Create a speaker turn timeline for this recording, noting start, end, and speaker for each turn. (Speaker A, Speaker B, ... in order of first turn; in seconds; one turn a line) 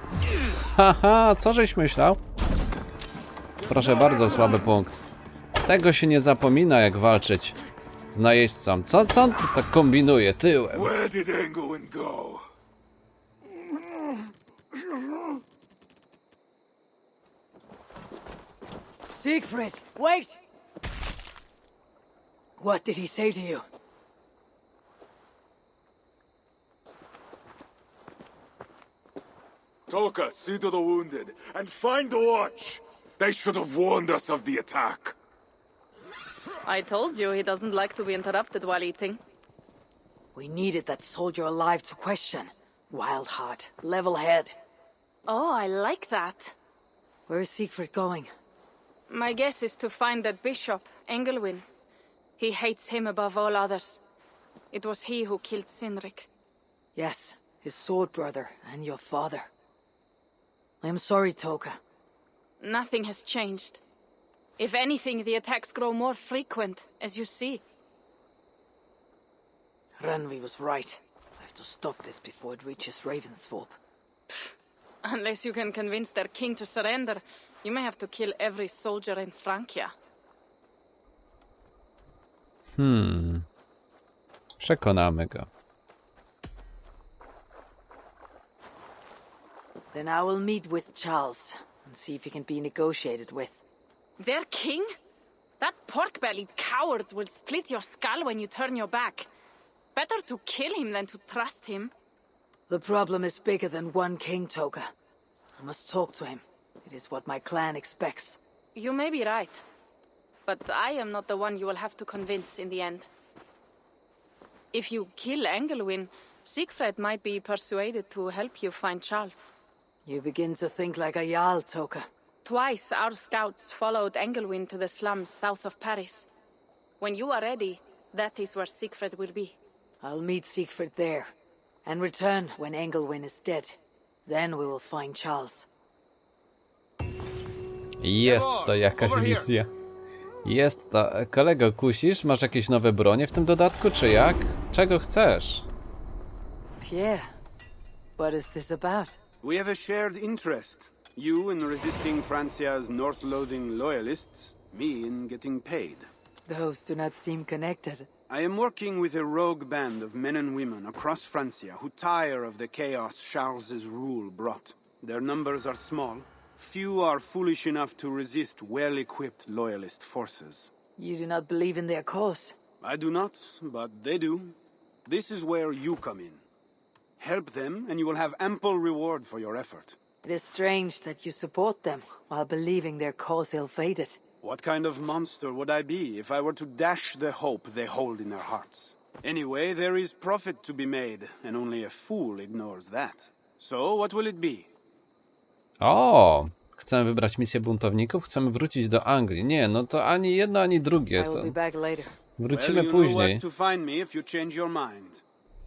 Speaker A: 0.7-2.2
Speaker A: 3.7-5.0
Speaker B: 3.8-4.4
Speaker A: 5.6-7.6
Speaker A: 8.1-10.9
Speaker B: 10.7-12.4
Speaker C: 19.1-20.4
Speaker C: 22.6-23.7
Speaker B: 29.9-35.2
Speaker D: 36.7-39.2
Speaker C: 40.4-44.6
Speaker D: 45.3-46.5
Speaker C: 47.3-48.3
Speaker D: 49.1-51.6
Speaker D: 52.4-54.0
Speaker D: 54.7-56.3
Speaker C: 57.0-59.5
Speaker C: 60.8-61.8
Speaker D: 62.6-63.8
Speaker D: 64.6-67.6
Speaker C: 70.0-73.8
Speaker D: 75.0-79.9
Speaker A: 82.8-83.5
Speaker A: 84.6-85.5
Speaker C: 89.9-93.6
Speaker D: 94.2-94.9
Speaker D: 95.6-99.3
Speaker D: 100.0-101.9
Speaker C: 102.7-104.9
Speaker C: 105.6-108.4
Speaker D: 108.8-109.6
Speaker D: 110.5-113.1
Speaker D: 114.7-119.5
Speaker C: 120.1-122.1
Speaker D: 122.5-126.3
Speaker D: 127.0-129.6
Speaker C: 130.0-131.3
Speaker C: 131.8-135.7
Speaker A: 138.0-139.7
Speaker E: 138.2-139.5
Speaker A: 140.4-145.7
Speaker C: 146.8-147.3
Speaker C: 148.2-149.2
Speaker E: 149.4-156.1
Speaker C: 156.5-158.1
Speaker E: 158.3-170.7
Speaker C: 171.0-172.6
Speaker E: 172.8-176.4
Speaker E: 177.2-180.0
Speaker C: 180.2-184.2
Speaker E: 184.4-194.7
Speaker A: 195.8-201.6
Speaker C: 201.1-202.2
Speaker A: 202.4-203.4
Speaker E: 202.5-205.2